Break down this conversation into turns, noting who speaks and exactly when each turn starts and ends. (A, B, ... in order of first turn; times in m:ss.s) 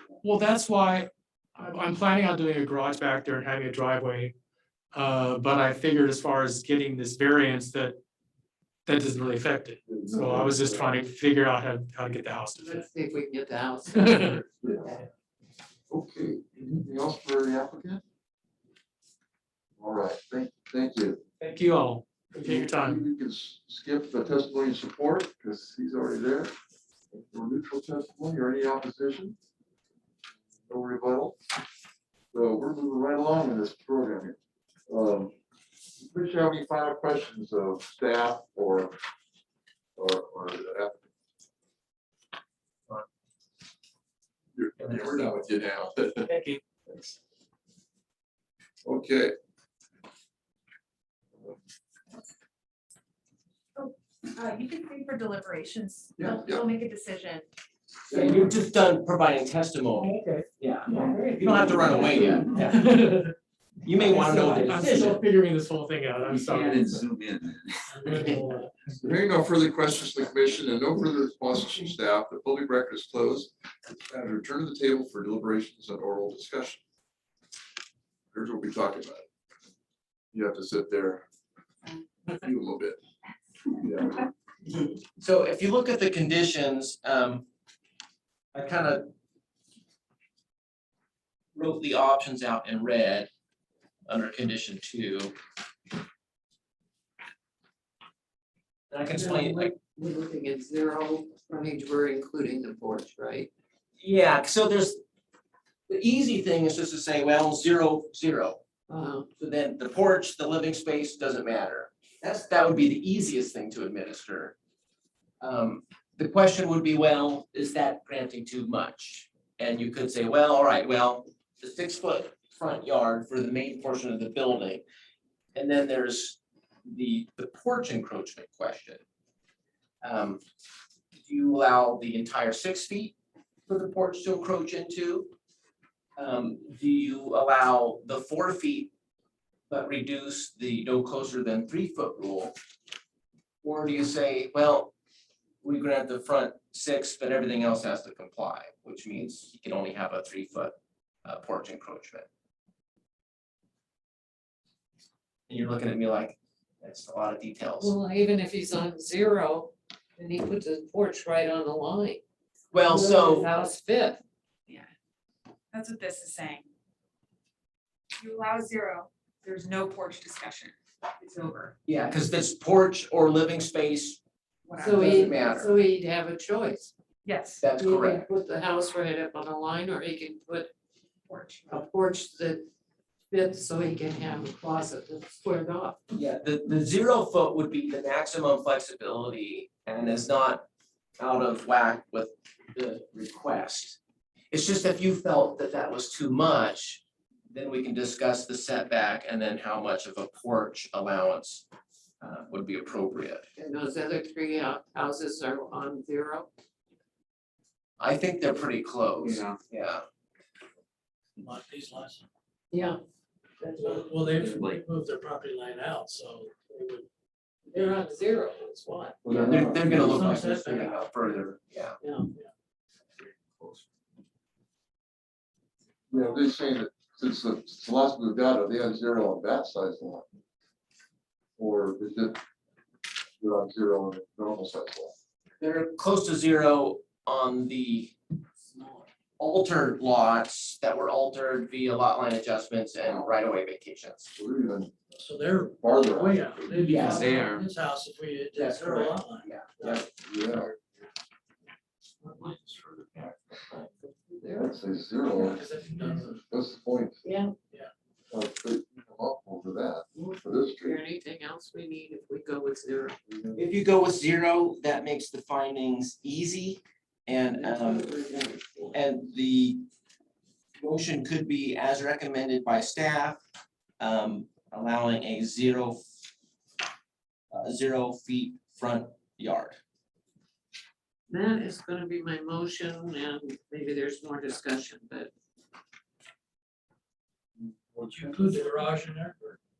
0:00.2-0:04.3 A
0:04.9-0:08.0 A
0:08.8-0:12.8 A
0:09.8-0:10.9 B
0:12.6-0:14.9 C
0:13.9-0:14.4 A
0:14.6-0:14.9 B
0:15.9-0:18.0 B
0:19.8-0:21.2 B
0:21.4-0:23.0 A
0:22.4-0:26.5 B
0:27.1-0:29.4 B
0:30.6-0:31.4 B
0:32.3-0:34.4 B
0:34.9-0:35.3 B
0:36.0-0:39.0 B
0:40.0-0:41.0 B
0:44.5-0:46.3 B
0:46.2-0:46.6 A
0:48.8-0:49.3 B
0:53.8-0:57.5 D
0:56.2-0:56.7 B
0:58.1-0:58.4 B
0:58.1-1:02.9 E
1:00.9-1:01.2 D
1:01.0-1:01.6 A
1:02.6-1:03.3 A
1:03.8-1:05.2 E
1:04.5-1:07.0 A
1:06.2-1:07.9 F
1:07.9-1:08.6 G
1:08.1-1:08.4 A
1:09.0-1:16.8 B
1:18.3-1:19.2 B
1:20.3-1:21.2 B
1:22.3-1:23.0 B
1:23.8-1:24.2 B
1:25.2-1:27.5 E
1:28.5-1:29.1 E
1:31.5-1:33.3 E
1:34.1-1:35.3 E
1:38.9-1:39.7 E
1:39.1-1:43.5 C
1:44.0-1:45.0 E
1:45.9-1:48.6 E
1:48.9-1:49.3 C
1:49.4-1:54.5 E
1:55.4-2:04.8 E
2:05.5-2:09.0 E
2:10.0-2:10.4 E
2:11.2-2:13.1 E
2:13.7-2:15.3 E
2:16.2-2:18.9 E
2:19.7-2:22.5 E
2:23.6-2:24.9 E
2:25.6-2:30.7 E
2:31.2-2:32.2 E
2:35.5-2:37.9 E
2:37.8-2:42.2 C
2:42.7-2:43.5 E
2:42.9-2:44.2 C
2:45.7-2:46.7 D
2:48.2-2:51.7 D
2:51.8-2:54.2 E
2:54.6-2:55.3 D
2:54.8-2:56.9 C
2:54.9-2:55.7 E
2:57.2-2:57.7 D
2:57.6-2:58.3 E
2:57.8-3:00.7 C
3:01.3-3:01.8 D
3:01.7-3:02.6 C
3:03.3-3:06.0 C
3:06.1-3:10.6 E
3:11.2-3:14.0 E
3:14.5-3:21.6 E
3:22.2-3:23.4 E
3:23.6-3:26.5 C
3:28.0-3:30.0 E
3:29.2-3:29.5 F
3:31.4-3:32.2 G
3:32.7-3:33.0 C
3:33.6-3:37.0 G
3:34.3-3:34.8 F
3:37.7-3:39.4 C
3:39.2-3:40.4 B
3:39.3-3:42.0 E
3:39.9-3:41.0 G
3:42.0-3:42.3 C
3:46.1-3:50.2 B
3:51.6-3:52.4 B
3:53.4-3:55.1 B
3:55.6-3:58.1 E
3:59.4-4:04.3 E
4:04.3-4:05.0 B
4:05.2-4:10.1 G
4:05.8-4:06.5 B
4:06.8-4:07.3 E
4:06.8-4:07.6 F
4:08.6-4:10.0 E
4:10.2-4:10.7 B
4:12.4-4:13.4 F
4:14.0-4:14.7 C
4:14.5-4:15.6 B
4:15.3-4:16.4 G
4:16.2-4:17.2 B
4:17.2-4:17.5 C
4:18.3-4:21.0 B
4:20.8-4:23.2 C
4:23.6-4:28.1 E
4:27.6-4:29.0 C
4:28.9-4:29.8 E
4:30.8-4:33.4 E
4:34.0-4:36.0 E
4:37.5-4:39.8 E
4:41.3-4:45.3 C
4:47.8-4:48.5 B
4:48.0-4:49.6 G